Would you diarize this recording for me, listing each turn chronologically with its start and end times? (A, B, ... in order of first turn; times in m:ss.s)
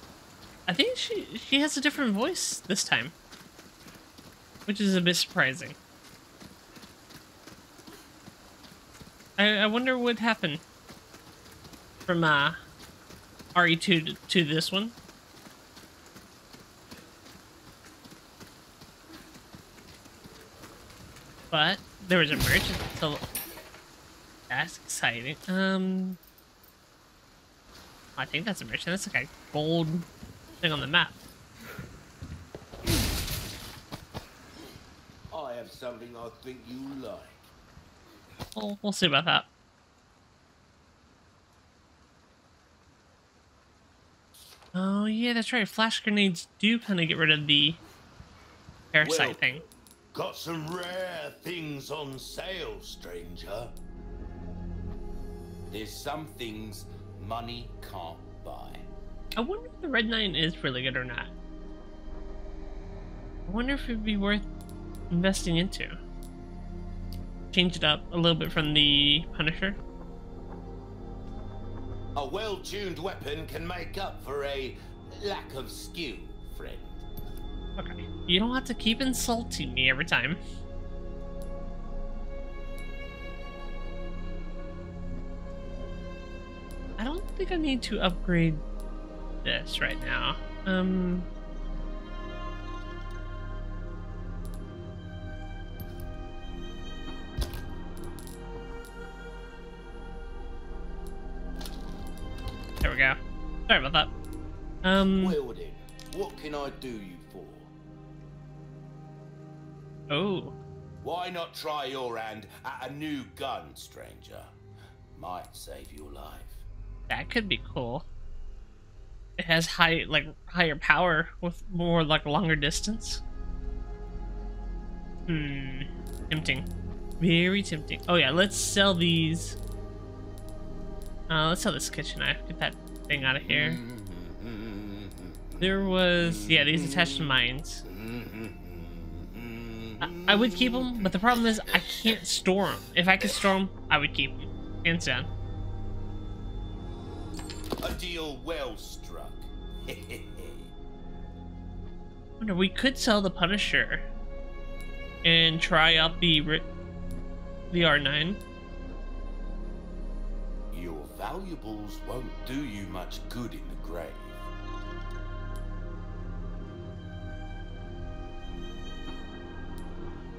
0:00.7-0:03.1 A
0:04.6-0:05.8 A
0:09.4-0:10.6 A
0:12.1-0:12.6 A
0:13.5-0:15.0 A
0:21.5-0:23.2 A
0:24.5-0:26.2 A
0:28.2-0:30.1 A
0:30.6-0:31.2 A
0:35.3-0:37.5 B
0:38.5-0:39.5 A
0:44.7-0:47.8 A
0:48.9-0:49.6 A
0:49.0-0:49.5 B
0:50.1-0:53.7 B
0:55.7-0:58.8 B
0:59.4-1:01.3 A
1:03.5-1:04.5 A
1:05.1-1:06.0 A
1:07.5-1:09.8 A
1:12.2-1:17.0 B
1:17.8-1:20.4 A
1:27.0-1:28.6 A
1:29.4-1:31.3 A
1:42.8-1:44.1 A
1:44.8-1:45.4 A
1:45.2-1:47.7 B
1:50.1-1:50.5 A
1:51.0-1:54.5 B
1:55.1-1:56.6 B
1:57.1-1:58.0 A
1:59.4-2:03.2 A
2:05.3-2:06.7 A
2:07.2-2:09.6 A
2:11.3-2:13.8 A
2:13.5-2:17.3 B
2:15.6-2:17.8 A
2:17.8-2:22.2 B
2:20.0-2:25.3 A
2:27.8-2:30.7 B
2:32.4-2:34.0 A
2:35.2-2:36.6 A
2:37.7-2:38.4 A
2:40.7-2:44.5 B